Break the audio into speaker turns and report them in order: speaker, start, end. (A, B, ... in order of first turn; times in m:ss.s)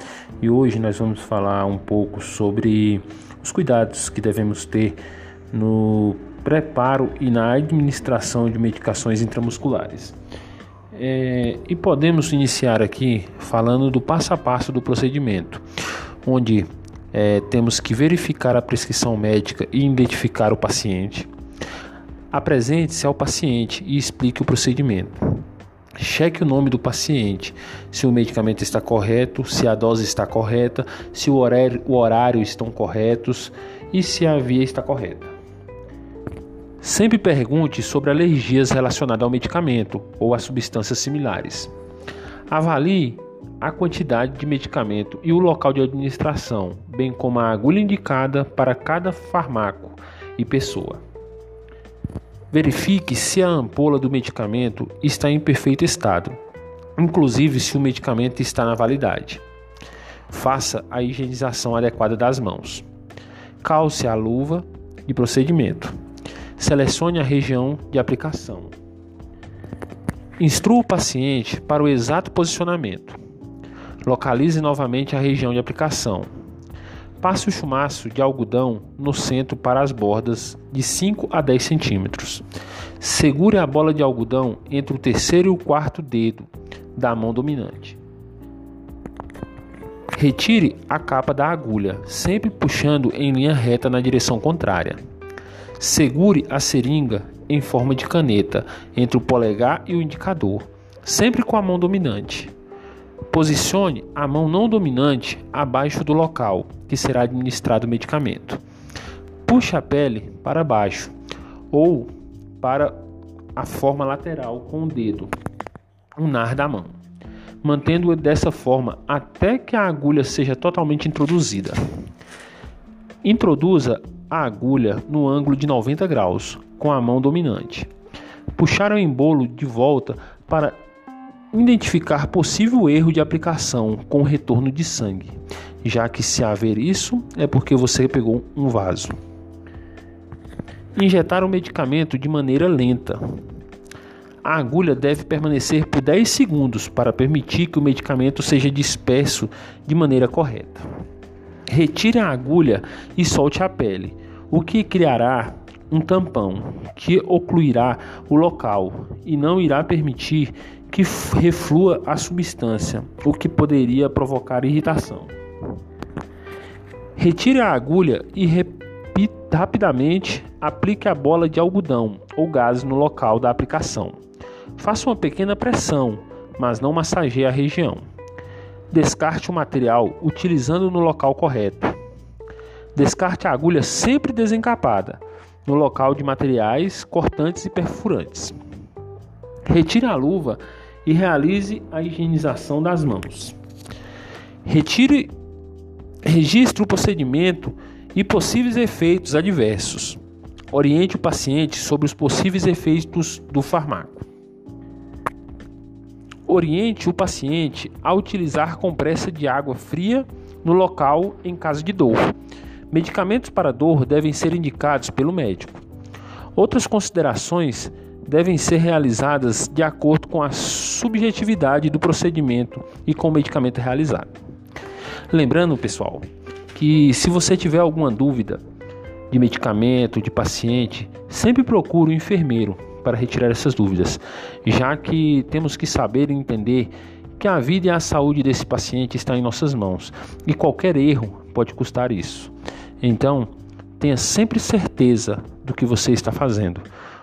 0:00.4-0:05.0 A
0:05.5-0:10.2 A
0:10.9-0:15.6 A
0:16.2-0:21.3 A
0:22.3-0:25.4 A
0:26.0-0:35.3 A
0:36.8-0:41.7 A
0:42.5-0:51.0 A
0:52.5-0:56.4 A
0:57.0-0:59.4 A
1:00.3-1:02.8 A
1:03.6-1:05.9 A
1:06.6-1:08.7 A
1:10.4-1:13.2 A
1:14.0-1:16.3 A
1:17.2-1:22.4 A
1:23.0-1:28.0 A
1:30.1-1:35.0 A
1:35.8-1:42.5 A
1:43.3-1:48.6 A
1:49.4-1:51.1 A
1:51.7-1:52.1 A
1:52.6-1:52.9 A
1:53.6-1:55.3 A
1:56.2-1:57.0 A
1:57.6-2:01.8 A
2:03.2-2:07.9 A
2:08.5-2:10.8 A
2:11.5-2:19.2 A
2:20.9-2:23.4 A
2:24.4-2:30.8 A
2:31.7-2:45.3 A
2:47.2-2:54.2 A
2:54.8-2:58.0 A
2:58.9-3:02.0 A
3:02.9-3:08.6 A
3:09.6-3:13.6 A
3:14.6-3:15.3 A
3:16.2-3:20.2 A
3:20.7-3:24.2 A
3:26.5-3:32.3 A
3:32.9-3:35.8 A
3:36.5-3:44.3 A
3:45.3-3:48.6 A
3:49.3-4:06.9 A